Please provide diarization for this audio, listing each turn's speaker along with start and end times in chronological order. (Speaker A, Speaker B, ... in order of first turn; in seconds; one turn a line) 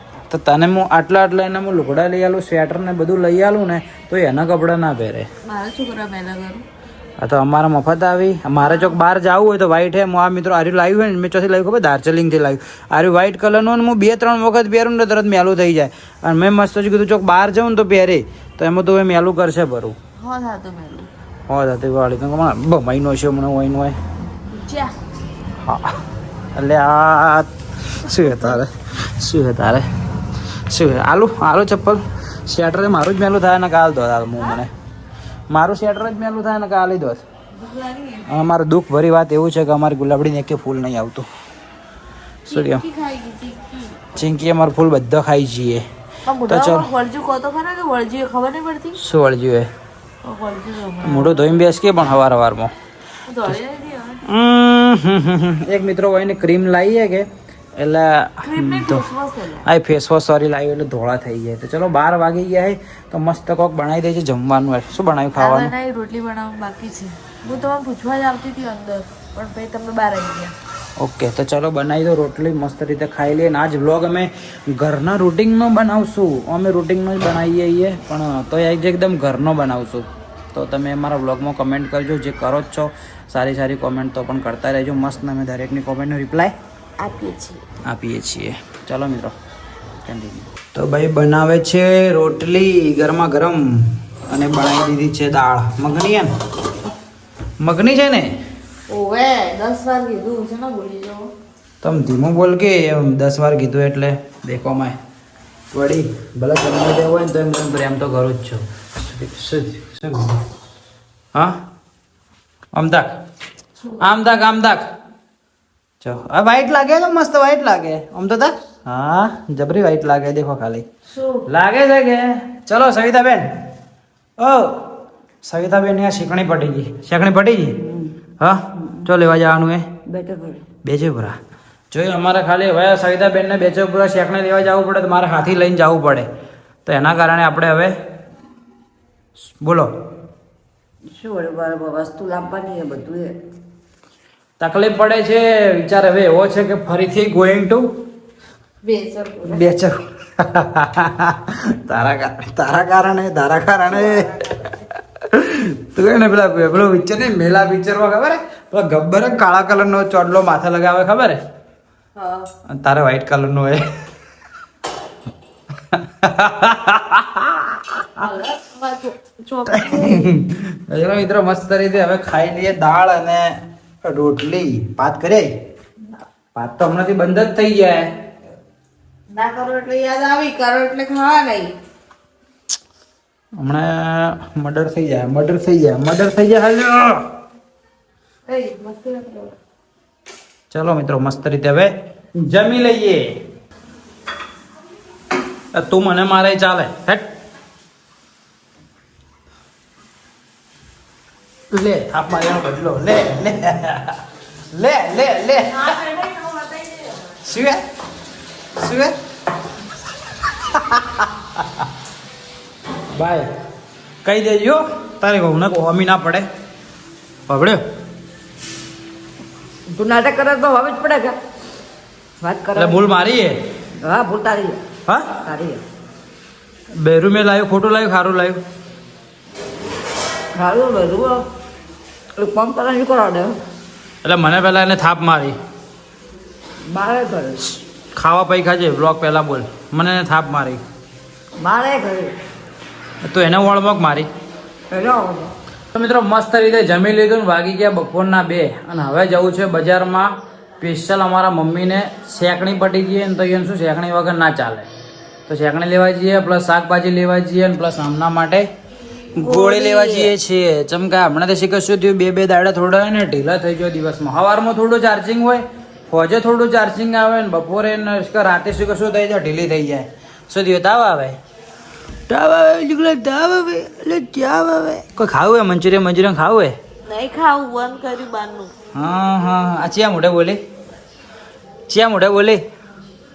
Speaker A: 0.3-5.3
Speaker B: 5.5-6.7
Speaker A: 7.2-20.0
Speaker B: 8.7-9.0
Speaker B: 20.2-21.1
Speaker A: 21.5-24.0
Speaker B: 24.6-24.9
Speaker A: 25.6-26.0
Speaker A: 26.6-29.9
Speaker B: 28.1-28.6
Speaker A: 30.7-34.7
Speaker A: 35.5-37.2
Speaker B: 37.5-38.3
Speaker A: 38.3-41.3
Speaker A: 42.5-42.8
Speaker B: 42.5-44.0
Speaker A: 44.1-45.8
Speaker B: 46.3-49.0
Speaker A: 46.5-46.9
Speaker A: 49.0-49.7
Speaker B: 50.2-51.5
Speaker A: 51.0-52.7
Speaker B: 53.3-54.2
Speaker A: 54.2-59.0
Speaker B: 58.4-59.7
Speaker A: 59.6-65.7
Speaker B: 65.4-70.5
Speaker A: 71.0-86.5
Speaker B: 87.0-87.6
Speaker A: 87.8-89.4
Speaker A: 90.0-96.3
Speaker A: 97.6-98.3
Speaker B: 98.9-101.3
Speaker A: 101.8-105.0
Speaker A: 105.7-110.4
Speaker A: 112.7-113.2
Speaker A: 114.0-114.9
Speaker A: 116.0-120.9
Speaker B: 121.1-121.4
Speaker A: 121.5-123.5
Speaker A: 124.4-124.9
Speaker A: 125.4-127.8
Speaker C: 127.8-128.2
Speaker A: 128.4-129.9
Speaker C: 130.1-130.6
Speaker A: 130.8-131.4
Speaker A: 131.9-136.3
Speaker A: 136.9-138.0
Speaker A: 139.6-139.9
Speaker C: 141.1-143.4
Speaker A: 144.6-147.9
Speaker B: 148.8-149.7
Speaker A: 149.5-154.5
Speaker B: 154.0-154.5
Speaker A: 155.2-161.4
Speaker B: 162.2-162.5
Speaker A: 162.7-163.9
Speaker A: 165.9-168.3
Speaker B: 168.2-170.3
Speaker A: 169.7-173.5
Speaker A: 174.1-175.5
Speaker A: 176.6-178.1
Speaker B: 179.3-181.7
Speaker A: 183.6-187.2
Speaker B: 188.5-189.6
Speaker A: 190.7-193.3
Speaker A: 195.7-197.3
Speaker A: 201.7-204.2
Speaker A: 204.8-206.0
Speaker B: 205.7-207.3
Speaker A: 207.4-207.8
Speaker A: 208.8-209.2
Speaker A: 210.6-211.9
Speaker A: 213.1-213.5
Speaker A: 214.2-216.5
Speaker A: 217.5-217.8
Speaker C: 219.9-221.4
Speaker C: 222.4-223.0
Speaker A: 222.8-223.6
Speaker C: 224.0-224.8
Speaker A: 225.1-225.4
Speaker C: 225.4-225.8
Speaker A: 226.9-228.6
Speaker C: 230.5-231.5
Speaker C: 232.4-233.6
Speaker A: 234.2-235.6
Speaker C: 236.9-237.6
Speaker A: 238.2-240.8
Speaker C: 241.6-242.3
Speaker A: 243.2-244.3
Speaker C: 244.9-245.5
Speaker A: 245.9-254.9
Speaker A: 255.5-258.7
Speaker A: 259.4-271.4
Speaker B: 259.4-260.3
Speaker A: 272.3-276.8
Speaker B: 277.1-278.7
Speaker A: 278.9-280.6
Speaker A: 281.9-282.6